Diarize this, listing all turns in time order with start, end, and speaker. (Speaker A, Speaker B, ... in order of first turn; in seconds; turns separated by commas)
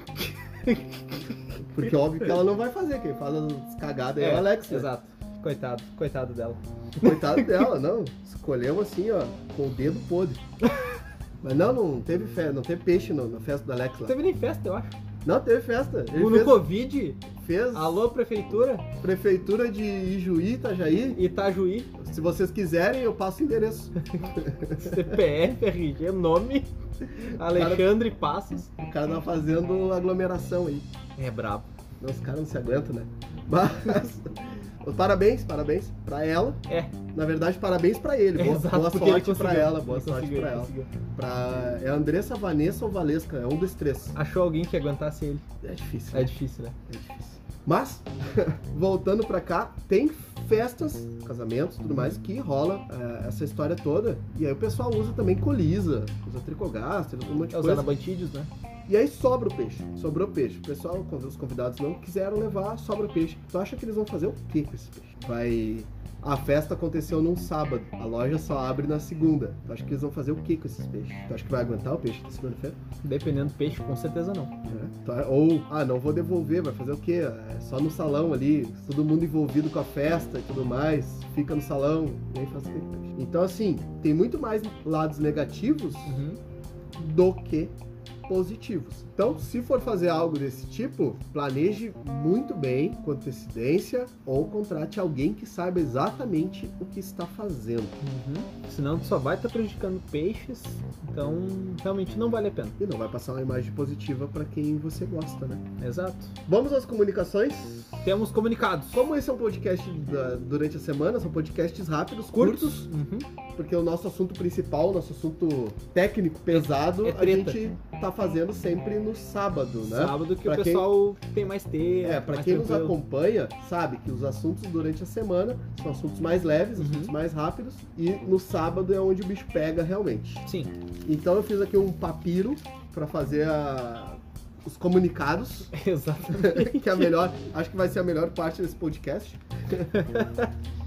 Speaker A: 0.2-2.4, Speaker B: 1.6-4.9, Speaker A: 4.2-7.7, Speaker B: 7.0-10.4, Speaker B: 11.4-14.2, Speaker A: 14.1-14.9, Speaker B: 15.2-16.7, Speaker A: 16.1-17.2, Speaker B: 17.4-18.1, Speaker A: 17.7-18.9, Speaker B: 19.0-21.2, Speaker A: 21.1-21.9, Speaker B: 21.9-25.2, Speaker A: 24.2-28.7, Speaker B: 27.4-27.9, Speaker B: 28.8-30.9, Speaker A: 31.2-31.7, Speaker B: 32.0-36.6, Speaker A: 36.7-36.9, Speaker B: 37.1-44.2, Speaker A: 38.4-40.9, Speaker A: 44.1-45.4, Speaker B: 45.6-46.3, Speaker A: 46.1-46.8, Speaker B: 46.9-57.9, Speaker A: 57.5-58.5, Speaker B: 58.9-72.8, Speaker A: 73.0-74.5, Speaker B: 74.7-86.2, Speaker A: 86.1-86.4, Speaker B: 87.0-87.7, Speaker B: 88.3-98.0, Speaker A: 98.0-102.8, Speaker B: 102.8-105.6, Speaker A: 105.8-106.3, Speaker B: 106.5-108.1, Speaker A: 108.0-109.1, Speaker B: 108.9-112.9, Speaker A: 112.3-113.3, Speaker B: 113.6-120.9, Speaker A: 116.5-117.6, Speaker A: 119.8-123.0, Speaker B: 122.0-130.4, Speaker A: 126.8-127.2, Speaker A: 130.4-130.7, Speaker B: 131.1-135.7, Speaker A: 135.7-137.1, Speaker B: 136.3-139.9, Speaker A: 139.9-140.5